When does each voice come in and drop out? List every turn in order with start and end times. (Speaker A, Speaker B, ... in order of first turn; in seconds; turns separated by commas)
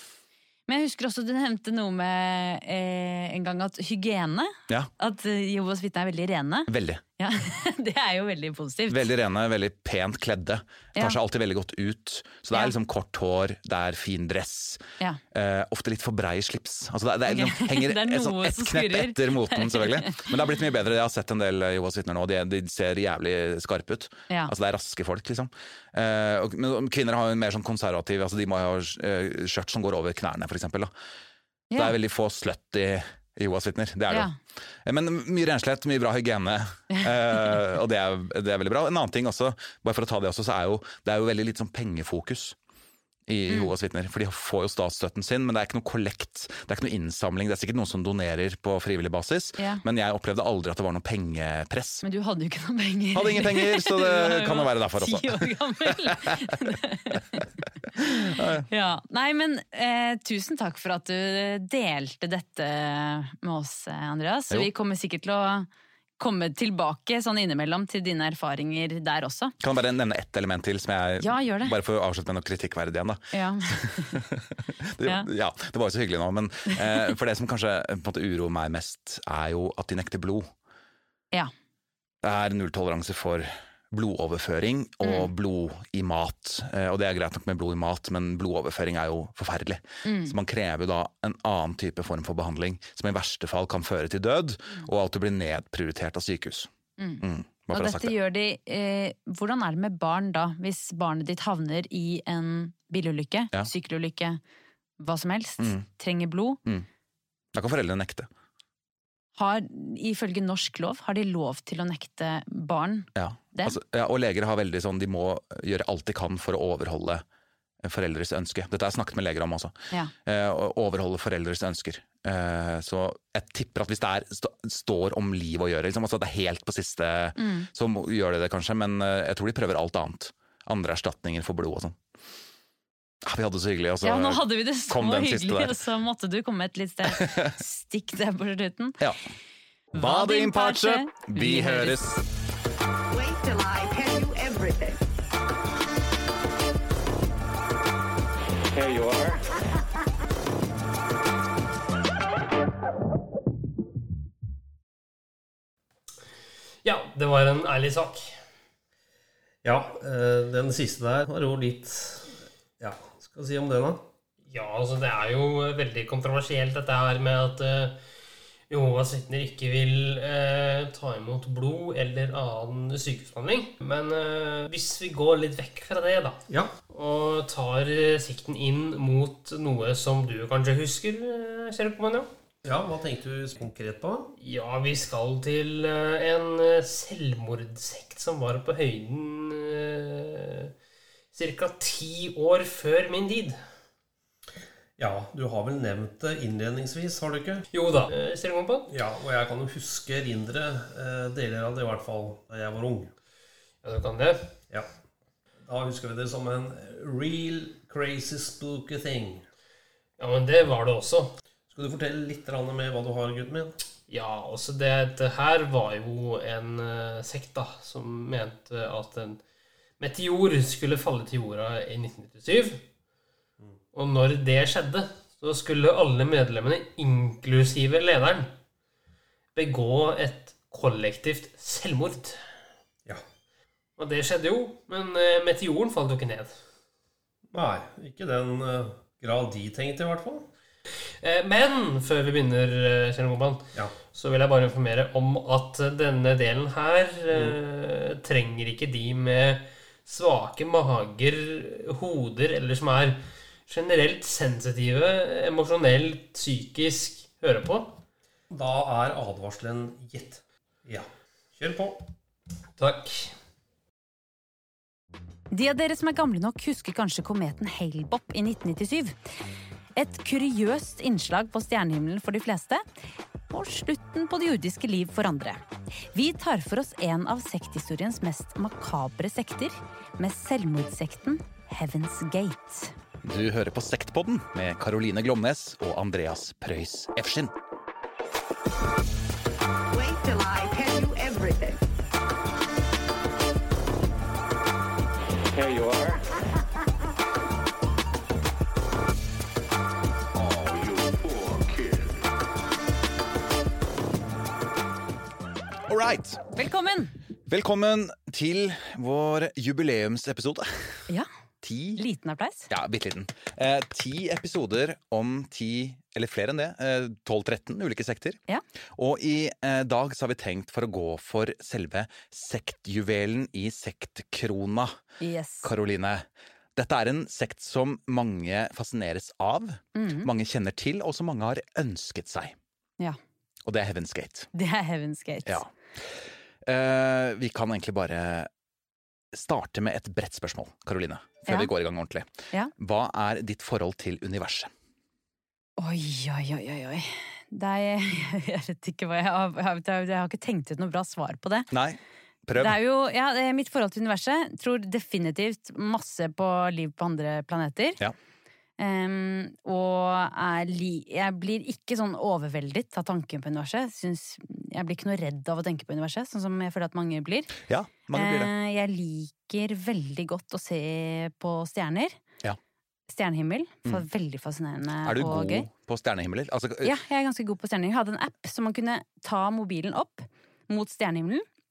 Speaker A: 0.7-9.1, Speaker B: 6.7-7.0, Speaker B: 8.9-30.9, Speaker A: 17.3-20.4, Speaker B: 31.8-34.3, Speaker B: 34.9-42.6, Speaker A: 36.9-37.5, Speaker B: 43.3-52.0, Speaker A: 52.0-57.4, Speaker B: 53.1-56.5, Speaker B: 57.1-57.4, Speaker B: 58.0-58.7, Speaker A: 58.0-65.7, Speaker A: 66.2-69.6, Speaker B: 69.6-80.5, Speaker A: 71.2-71.7, Speaker A: 73.3-74.2, Speaker B: 82.2-96.7, Speaker A: 85.0-85.3, Speaker A: 90.0-90.3, Speaker A: 97.0-104.4, Speaker B: 97.2-98.2, Speaker A: 105.0-106.6, Speaker B: 105.6-105.9, Speaker B: 107.5-108.3, Speaker A: 109.4-113.8, Speaker B: 113.2-117.2, Speaker B: 117.8-119.7, Speaker B: 120.2-132.0, Speaker A: 127.4-127.7, Speaker B: 133.2-135.8, Speaker A: 134.0-139.0, Speaker B: 137.1-137.6, Speaker B: 139.9-142.2, Speaker A: 139.9-142.2, Speaker C: 143.1-145.1, Speaker D: 148.7-149.4, Speaker E: 156.8-158.4, Speaker F: 159.6-164.0, Speaker E: 164.5-168.0, Speaker E: 168.7-182.3, Speaker F: 182.6-184.3, Speaker E: 184.4-190.7, Speaker E: 191.3-193.6, Speaker F: 195.0-197.7, Speaker E: 197.7-198.9, Speaker F: 198.9-203.1, Speaker E: 203.8-204.5, Speaker F: 205.6-209.4, Speaker E: 210.2-211.3, Speaker F: 211.7-213.8, Speaker E: 214.1-219.4, Speaker E: 220.0-222.8, Speaker E: 223.9-228.5, Speaker E: 229.6-232.4, Speaker E: 234.0-236.6, Speaker F: 237.5-240.5, Speaker E: 241.2-258.0, Speaker F: 247.3-247.6, Speaker F: 258.5-262.1, Speaker E: 262.8-263.3, Speaker A: 265.5-269.2, Speaker A: 270.0-272.9, Speaker A: 273.5-275.6, Speaker A: 276.1-282.9, Speaker B: 283.2-287.5, Speaker C: 289.9-291.9, Speaker D: 295.5-296.2, Speaker D: 300.4-302.2, Speaker B: 305.9-306.4, Speaker A: 306.5-307.1, Speaker B: 307.5-310.7, Speaker B: 311.6-312.0, Speaker A: 312.0-312.7, Speaker B: 312.7-318.4, Speaker B: 318.9-325.0, Speaker A: 325.2-325.7, Speaker B: 325.6-332.6, Speaker A: 329.9-330.3, Speaker B: 333.7-334.5, Speaker A: 334.6-335.6, Speaker B: 335.4-338.5, Speaker B: 339.3-344.7, Speaker A: 345.8-351.7, Speaker B: 351.7-352.8, Speaker A: 352.6-358.0, Speaker A: 358.8-367.6, Speaker B: 367.7-368.5, Speaker A: 368.1-372.2, Speaker A: 373.1-375.7, Speaker B: 375.0-376.9, Speaker A: 376.8-381.5